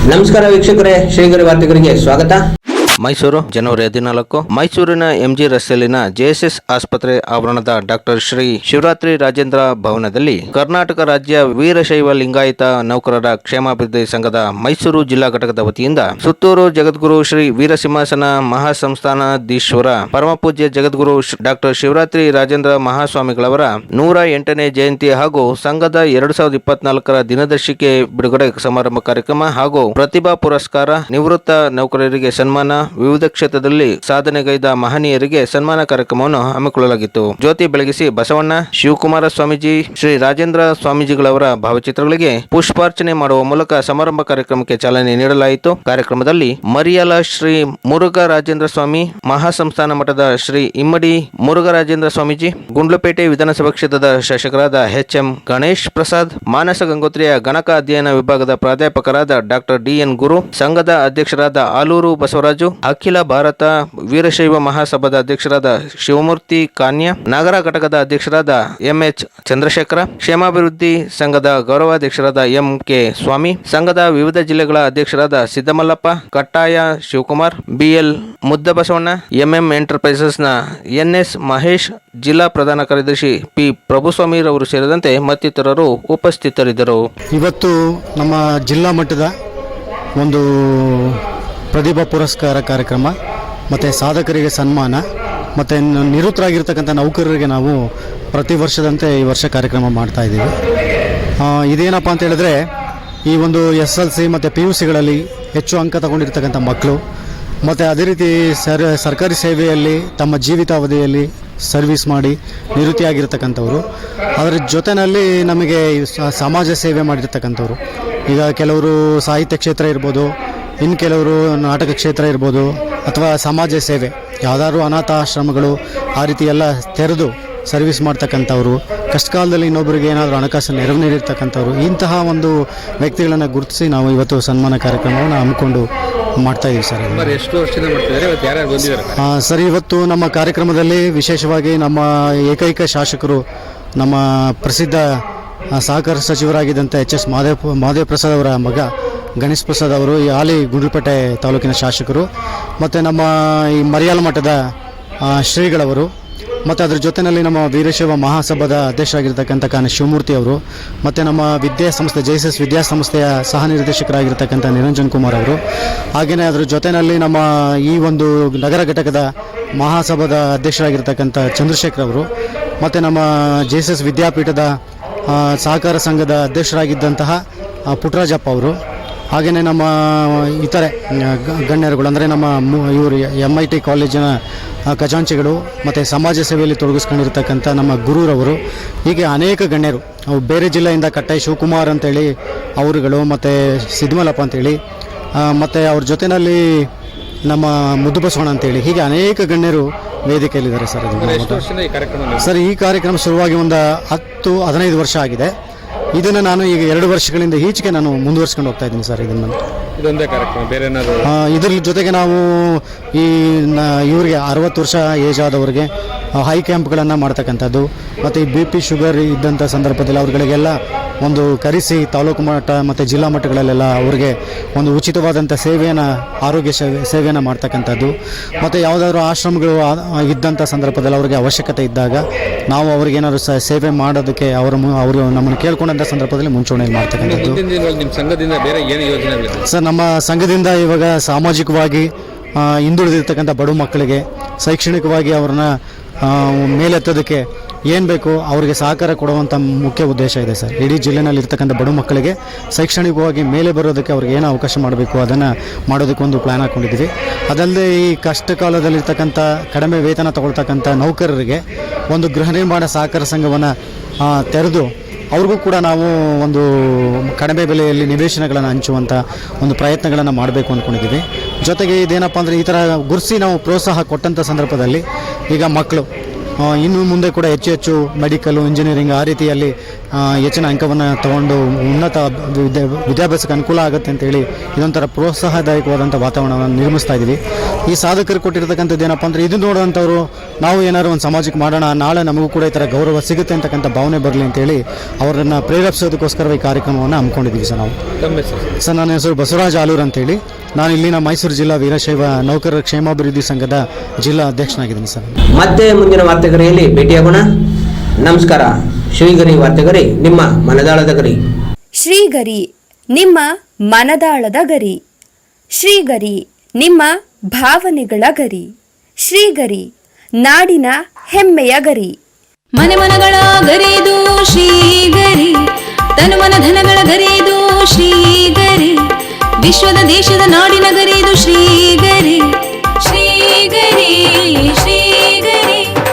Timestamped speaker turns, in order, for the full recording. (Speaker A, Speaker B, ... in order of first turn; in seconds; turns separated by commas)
Speaker A: 0.1-2.4, Speaker B: 3.0-87.0, Speaker C: 87.3-89.3, Speaker C: 90.2-91.2, Speaker C: 91.7-93.1, Speaker C: 93.7-95.0, Speaker C: 95.6-97.8, Speaker C: 98.3-100.5, Speaker C: 101.4-102.6, Speaker C: 103.3-107.0, Speaker C: 107.6-113.8, Speaker C: 114.4-117.8, Speaker C: 118.3-120.3, Speaker C: 120.8-135.9, Speaker C: 136.4-137.4, Speaker D: 137.2-139.1, Speaker C: 139.2-143.4, Speaker C: 144.0-145.1, Speaker C: 145.7-148.9, Speaker C: 149.4-152.3, Speaker C: 152.8-154.6, Speaker C: 155.2-156.1, Speaker C: 156.7-165.6, Speaker C: 166.2-172.3, Speaker C: 172.8-174.7, Speaker C: 175.3-178.8, Speaker C: 179.3-184.4, Speaker C: 184.9-194.8, Speaker C: 195.4-196.9, Speaker C: 197.5-201.7, Speaker D: 201.2-202.3, Speaker C: 202.4-205.5, Speaker C: 206.1-209.6, Speaker D: 210.0-211.1, Speaker C: 211.3-237.6, Speaker D: 237.3-239.6, Speaker C: 239.7-263.7, Speaker C: 264.2-276.1, Speaker C: 276.6-298.0, Speaker D: 298.2-298.6, Speaker C: 298.8-305.3, Speaker A: 305.6-307.4, Speaker A: 308.2-311.4, Speaker E: 312.0-315.0, Speaker E: 315.8-318.7, Speaker E: 319.2-319.9, Speaker E: 320.4-322.1, Speaker F: 322.8-325.5, Speaker F: 326.2-329.0, Speaker F: 329.6-332.4, Speaker F: 333.0-335.9